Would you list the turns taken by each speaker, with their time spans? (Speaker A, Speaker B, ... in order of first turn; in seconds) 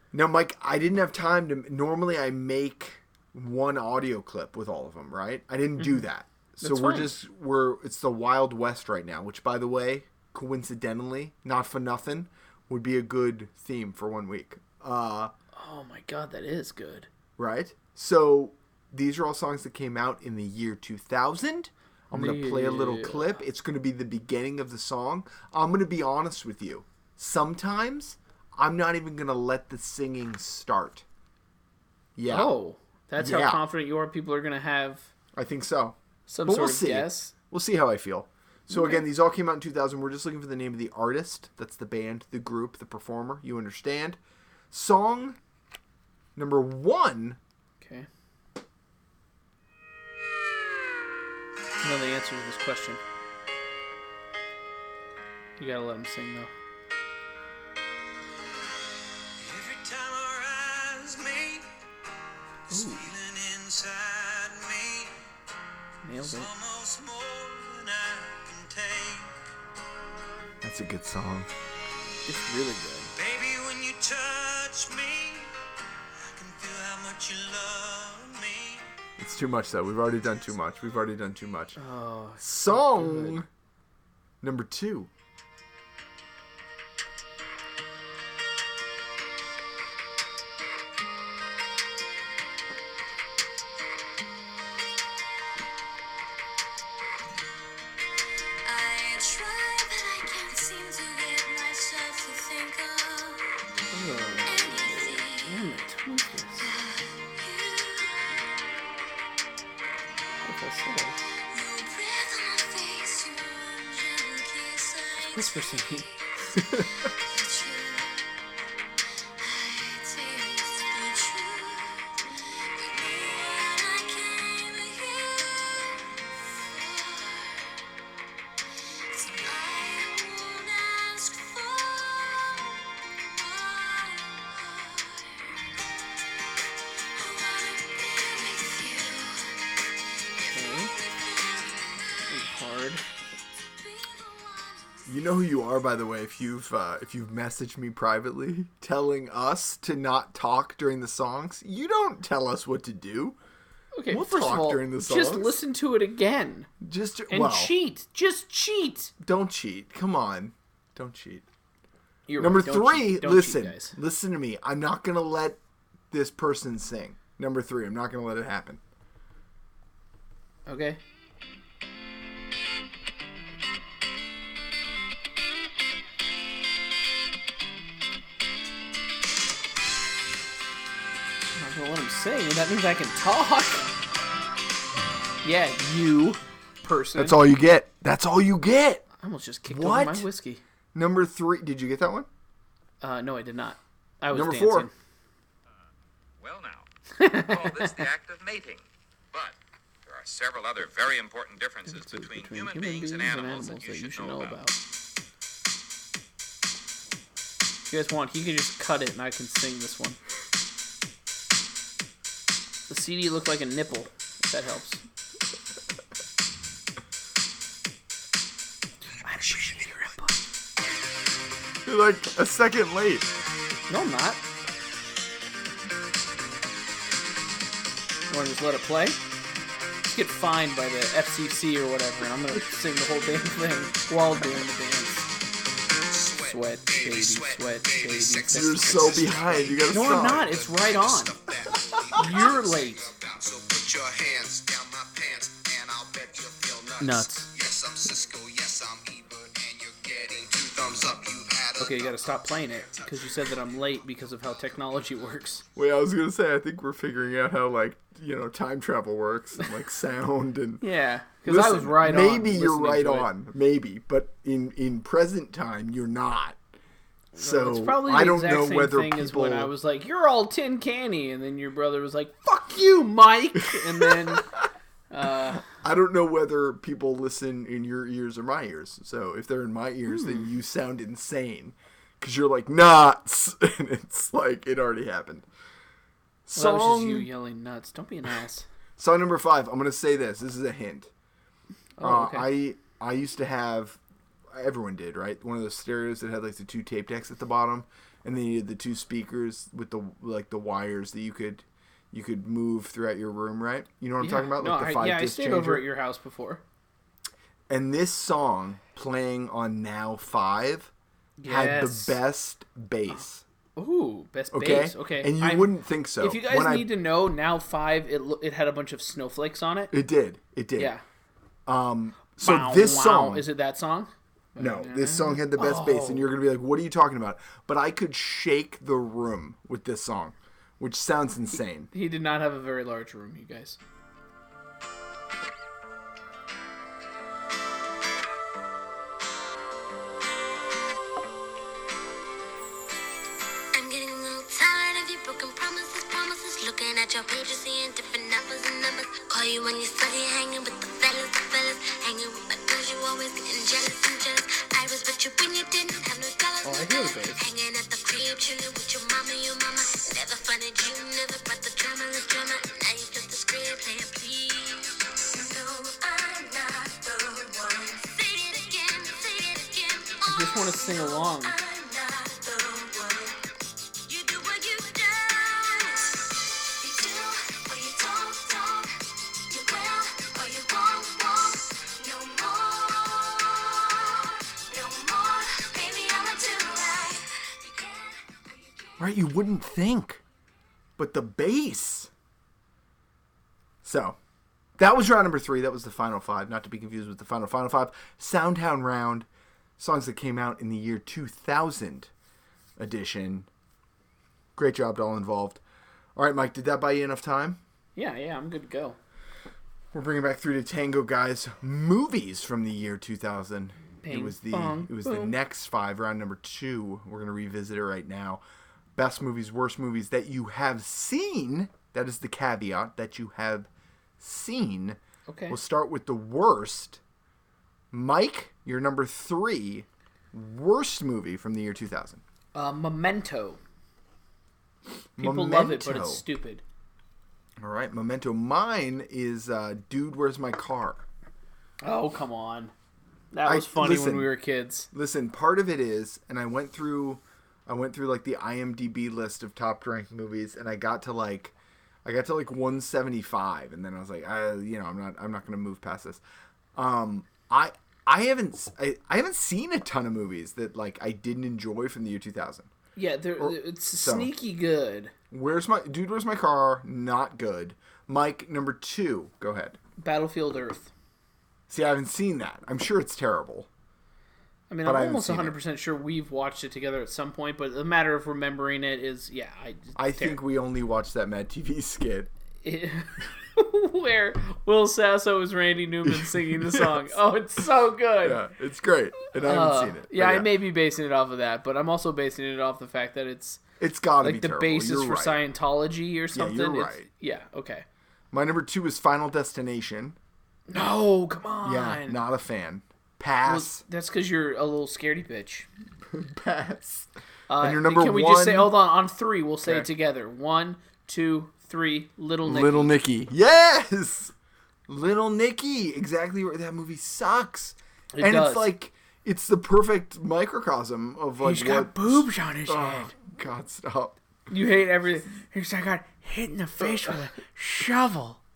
Speaker A: 0.1-15.3, 17.4-31.0, 32.1-32.5, 33.2-33.6, 35.3-44.2, 44.7-45.4, 46.4-47.4, 70.6-71.5, 79.2-81.8, 82.4-83.5, 84.4-85.1, 116.6-116.9, 145.1-153.4, 154.1-155.6, 156.8-157.7, 159.2-161.4, 162.4-165.6, 166.1-168.8, 187.1-189.0, 189.7-190.3, 190.9-192.3, 194.3-194.9, 221.8-223.3, 238.5-240.5, 255.7-260.8, 261.4-266.6, 267.4-269.7, 275.6-285.4, 286.4-287.3, 289.0-291.1, 292.0-294.0, 294.5-305.8, 307.7-310.9, 311.5-313.4, 314.5-316.9, 319.9-320.9, 321.6-323.5, 324.6-331.9, 389.0-390.2, 391.0-392.1, 393.8-394.2, 394.8-399.3, 399.8-402.1, 402.8-403.5, 404.6-405.6, 406.1-407.6, 409.9-418.4, 418.9-423.7, 424.2-427.0, 427.9-432.2, 435.1-436.2, 437.6-441.0, 443.4-444.3, 444.9-451.5, 452.0-456.2, 456.7-462.7, 463.4-464.3, 465.3-469.8, 471.7-473.7, 474.8-475.5, 479.9-482.3, 486.0-487.1, 488.2-490.5, 493.8-495.4, 496.3-497.1, 498.3-500.2, 501.6-503.8, 506.1-508.7, 512.4-514.3, 514.9-524.2
Speaker B: 6.6-7.2, 15.5-17.1, 22.1-23.4, 32.3-35.1, 36.3-37.3, 38.7-39.0, 47.8-48.1, 51.8-53.0, 55.6-56.5, 62.7-63.1, 66.0-66.5, 72.2-73.1, 81.8-83.4, 103.9-106.7, 110.4-111.3, 115.3-116.1, 140.5-140.9, 142.3-143.0, 154.0-156.7, 157.3-159.1, 162.3-163.9, 170.7-171.0, 181.6-183.9, 185.4-187.4, 189.2-190.6, 193.0-194.9, 197.2-198.1, 201.9-204.8, 207.9-210.2, 212.9-215.0, 219.2-220.4, 223.9-224.4, 228.3-229.2, 230.1-235.2, 236.4-241.3, 242.2-243.1, 247.0-247.5, 251.8-255.6, 260.8-263.3, 267.3-274.5, 275.1-275.7, 286.5-288.6, 292.0-292.5, 304.2-306.6, 311.4-312.2, 313.8-319.9, 320.8-321.0, 322.4-326.3, 331.9-333.8, 356.6-357.4, 370.2-371.5, 407.9-409.0, 414.0-415.3, 425.3-425.6, 432.5-433.6, 435.2-436.6, 441.8-442.7, 443.3-444.9, 462.9-465.1, 470.0-470.9, 474.7-480.4, 482.6-488.4, 489.4-493.6, 494.2-497.8, 500.7-502.2, 503.4-505.7, 507.5-512.9, 518.1-518.7, 521.4-523.1, 524.5-528.4
Speaker C: 59.4-61.7, 62.7-65.2, 66.1-69.4, 73.1-75.5, 76.3-78.9
Speaker D: 98.6-103.6, 104.4-105.5, 106.6-108.5, 111.5-118.3, 119.4-127.7, 129.1-135.5, 137.1-142.6, 143.6-145.2, 343.7-373.4, 374.1-389.0
Speaker E: 196.4-204.6
Speaker F: 236.1-253.5